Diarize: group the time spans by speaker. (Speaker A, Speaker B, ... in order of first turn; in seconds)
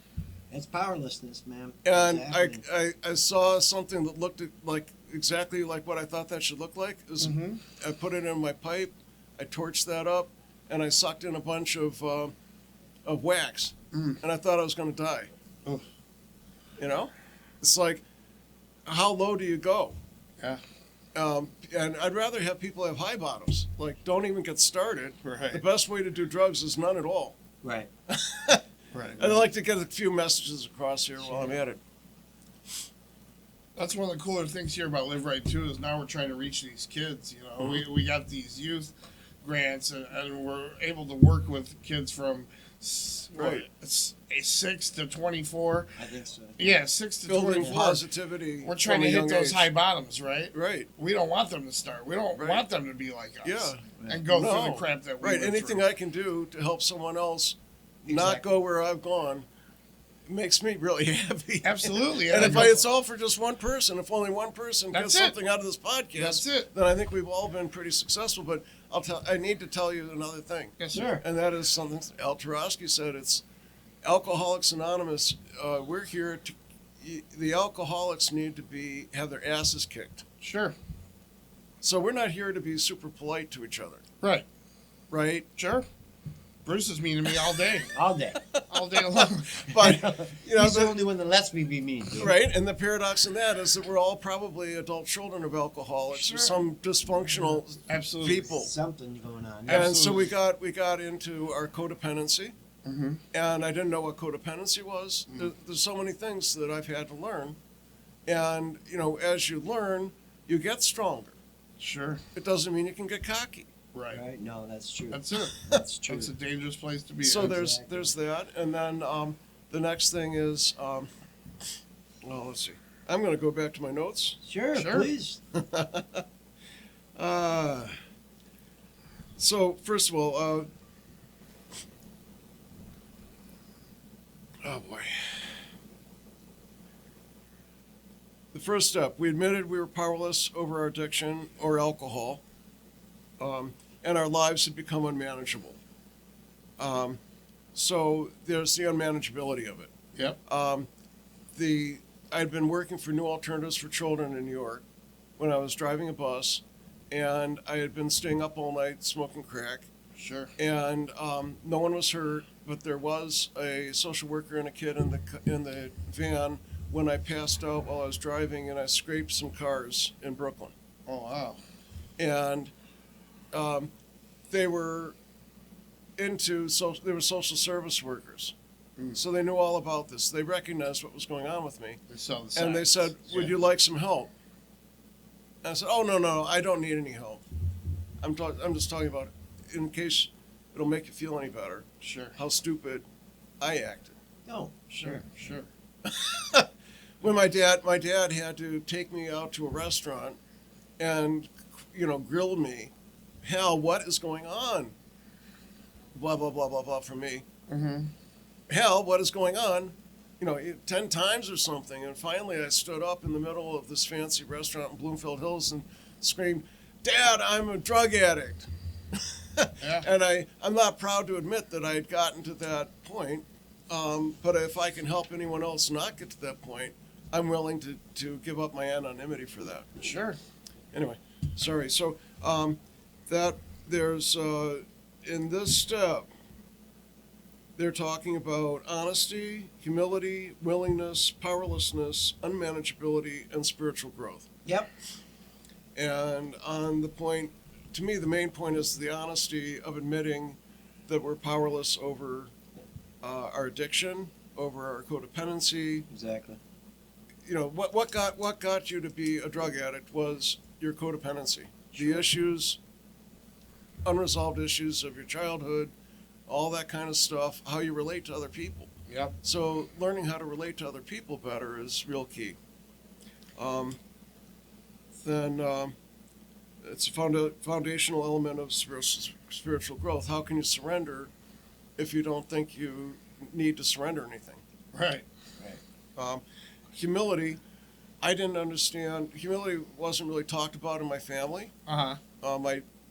Speaker A: 0.5-2.6, 27.6-27.9, 46.0-46.8, 47.5-48.0, 53.9-54.2, 58.1-58.5, 70.9-71.2, 87.9-88.5, 89.7-92.4, 96.1-96.6, 98.2-99.9, 114.1-116.3, 117.3-118.1, 124.4-125.4, 194.5-195.2, 244.7-244.9, 256.1-256.6, 261.9-262.3
Speaker B: 1.8-12.3, 13.1-15.3, 16.8-18.0, 18.9-20.0, 21.1-27.4, 28.1-28.6, 29.2-31.8, 43.4-43.7, 47.3-49.7, 50.5-50.9, 52.3-52.6, 53.4-59.5, 60.3-73.4, 74.0-80.2, 81.8-84.0, 85.1-85.5, 88.5-91.0, 92.2-98.7, 99.7-102.5, 103.3-107.6, 108.3-111.4, 112.3-113.7, 117.2-121.1, 122.2-124.4, 125.5-126.2, 127.2-128.0, 129.4-130.7, 134.6-135.5, 138.5-142.4, 143.4-145.8, 146.8-147.2, 147.7-149.9, 150.5-150.9, 151.5-154.8, 155.4-159.9, 160.6-170.7, 172.2-172.7, 173.5-173.9, 174.5-175.2, 176.2-178.6, 179.2-182.0, 182.5-184.3, 185.6-187.4, 188.2-193.1, 193.6-194.2, 196.1-196.7, 197.2-200.4, 201.0-202.9, 203.4-204.9, 206.2-207.4, 208.7-229.9, 230.9-236.3, 237.8-244.5, 246.0-252.5, 253.2-256.1, 257.5-262.8, 264.1-265.9, 266.5-268.9, 269.4-272.6, 273.6-274.0, 275.2-275.9, 276.8-281.3, 282.0-284.6, 286.2-286.4, 286.9-287.6, 288.2-291.7, 292.4-292.8
Speaker C: 7.2-7.6, 13.9-14.2, 25.2-25.6, 28.9-29.3, 33.8-46.0, 46.6-48.0, 48.6-55.9, 61.6-62.8, 64.9-65.4, 66.2-66.7, 70.8-71.1, 80.4-80.8, 84.2-84.5, 85.6-85.9, 86.7-88.0, 88.7-89.6, 97.9-98.5, 99.7-100.3, 102.8-103.2, 111.8-112.2, 113.9-114.2, 115.1-117.6, 124.7-125.1, 160.2-160.5, 171.1-171.6, 182.1-183.5, 192.0-192.4, 195.0-195.7, 207.7-208.1, 219.8-220.1, 230.0-230.4, 269.1-269.4, 284.9-285.3, 291.9-292.2